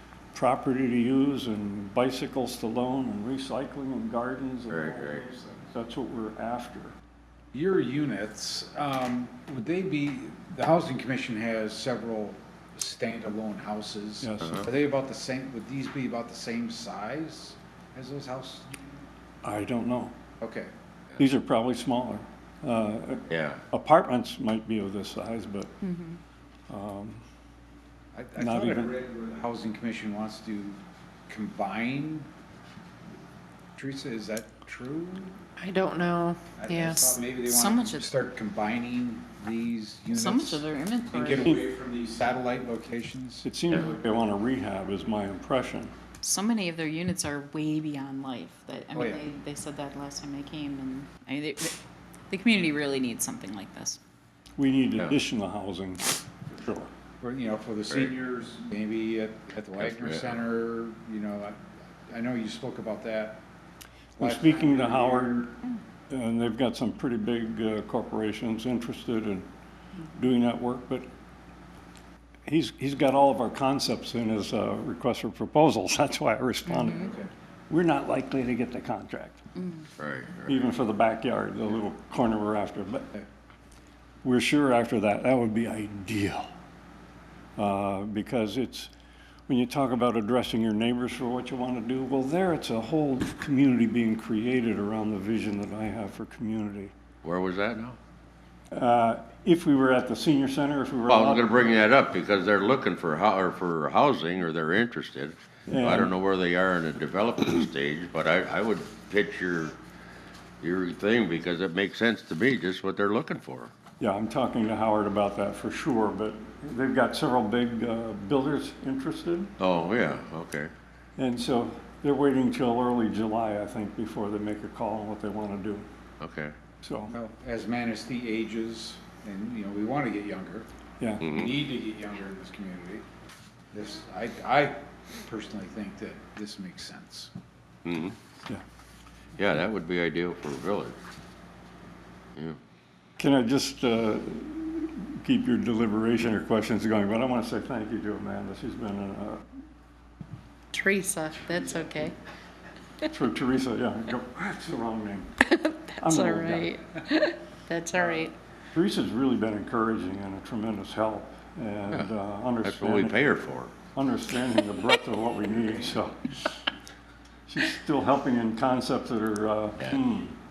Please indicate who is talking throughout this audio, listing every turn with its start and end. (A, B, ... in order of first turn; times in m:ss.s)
0:00.3-0:07.0 A
0:04.7-0:05.2 B
0:07.5-0:19.0 C
0:14.2-0:14.7 A
0:19.4-0:20.2 A
0:20.4-0:20.7 C
0:21.2-0:25.7 A
0:23.3-0:23.6 B
0:25.8-0:26.2 D
0:26.7-0:27.2 A
0:28.1-0:32.3 C
0:28.4-0:29.0 A
0:33.8-0:35.4 C
0:35.6-0:37.2 E
0:36.5-0:43.4 C
0:37.4-0:38.1 D
0:40.1-0:41.5 D
0:43.4-0:45.9 A
0:46.2-0:51.8 D
0:48.9-0:49.2 C
0:52.3-0:54.0 D
0:54.6-0:56.9 A
0:57.2-1:01.6 C
0:59.8-1:00.4 B
1:02.1-1:03.4 C
1:04.2-1:05.5 C
1:04.2-1:05.5 A
1:06.1-1:09.5 A
1:10.1-1:11.1 A
1:12.5-1:17.1 A
1:16.7-1:17.1 D
1:17.0-1:17.3 C
1:17.7-1:19.4 A
1:19.6-1:19.8 D
1:20.0-1:20.6 B
1:20.5-1:23.1 A
1:24.2-1:26.5 A
1:27.6-1:28.9 A
1:29.5-1:36.9 A
1:37.2-1:38.0 B
1:38.7-1:41.8 A
1:41.1-1:49.8 B
1:45.7-1:46.1 A
1:50.6-1:53.7 B
1:54.0-1:59.5 A
1:59.6-2:00.7 B
2:01.2-2:05.9 A
2:06.2-2:06.5 B
2:06.8-2:07.1 A
2:07.1-2:10.7 C
2:11.0-2:11.3 A
2:11.2-2:11.6 B
2:11.3-2:13.0 C
2:13.7-2:17.3 C
2:17.8-2:18.2 B
2:19.4-2:21.0 B
2:23.2-2:29.4 A
2:30.7-2:32.2 E
2:33.0-2:35.4 A
2:35.4-2:38.3 E
2:36.0-2:36.8 A
2:38.7-2:43.2 A
2:42.6-2:43.7 B
2:43.9-2:46.6 A
2:47.5-2:50.4 A